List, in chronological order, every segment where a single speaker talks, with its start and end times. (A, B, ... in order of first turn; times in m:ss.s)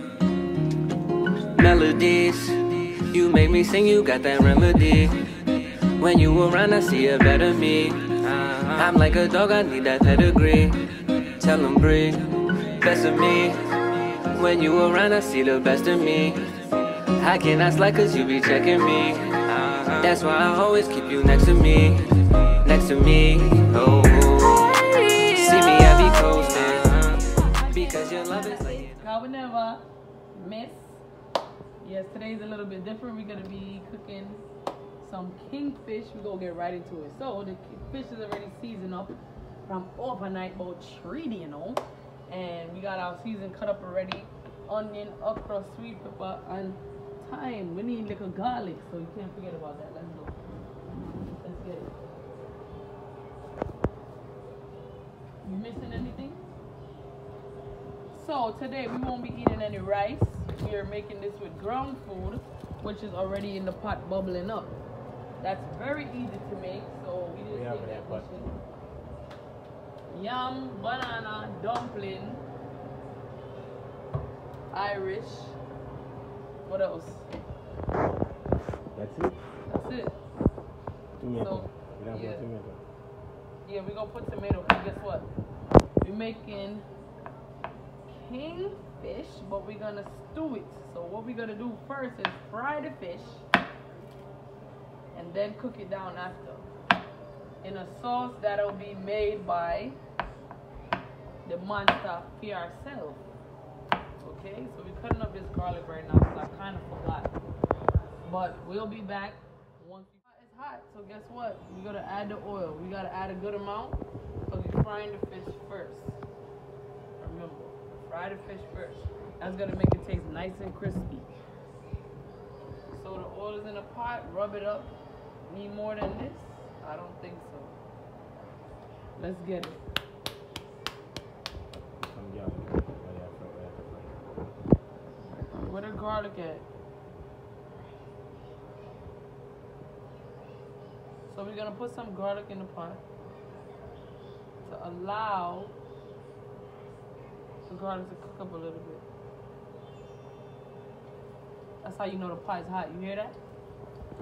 0:01.5-0:29.0 A
0:24.9-0:31.0 B
0:31.8-0:34.5 B
0:35.0-0:50.4 B
0:51.4-0:51.9 B
0:55.4-0:56.4 B
0:58.1-1:04.8 B
1:05.4-1:08.5 B
1:07.3-1:08.4 C
1:10.1-1:12.4 B
1:14.7-1:15.6 B
1:16.6-1:17.3 B
1:18.9-1:19.4 C
1:19.7-1:20.2 B
1:21.2-1:22.8 C
1:21.4-1:22.5 B
1:23.6-1:25.3 B
1:26.0-1:26.9 B
1:28.1-1:33.4 B
1:35.1-1:36.7 B
1:37.6-1:40.0 B
1:41.4-1:43.2 B
1:44.2-1:47.3 B
1:48.2-1:56.2 B
1:57.2-2:01.3 B
2:02.9-2:04.9 B
2:05.4-2:07.8 B
2:09.2-2:09.8 B
2:12.0-2:14.2 C
2:15.4-2:16.7 B
2:21.3-2:23.0 B
2:24.6-2:25.7 B
2:27.7-2:29.0 B
2:31.8-2:33.4 B